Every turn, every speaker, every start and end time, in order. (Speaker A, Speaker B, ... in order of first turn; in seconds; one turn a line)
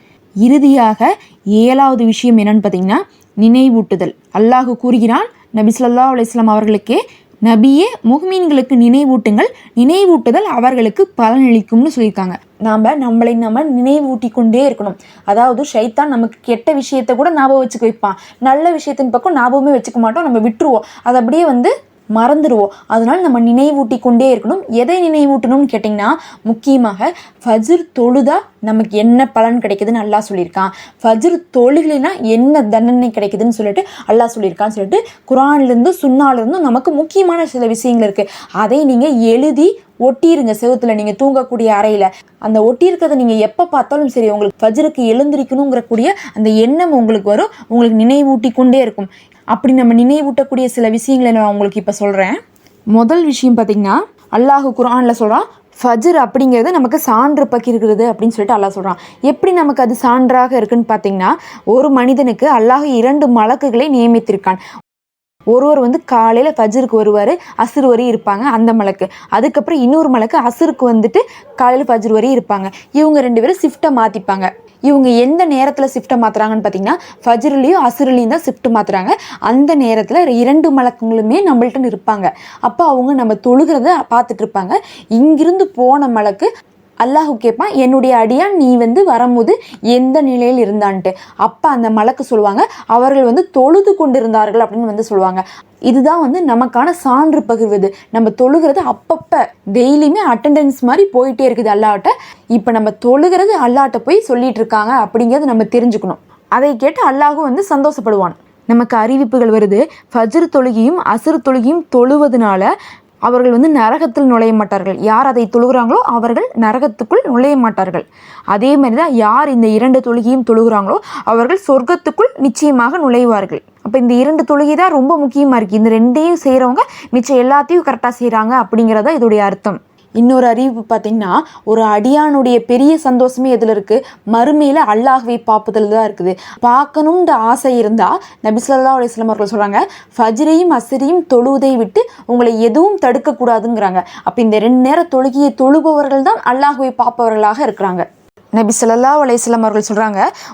Speaker A: 0.4-52.4
Speaker A: 52.9-64.6
Speaker A: 65.5-86.5
Speaker A: 87.0-112.7
Speaker A: 113.2-150.2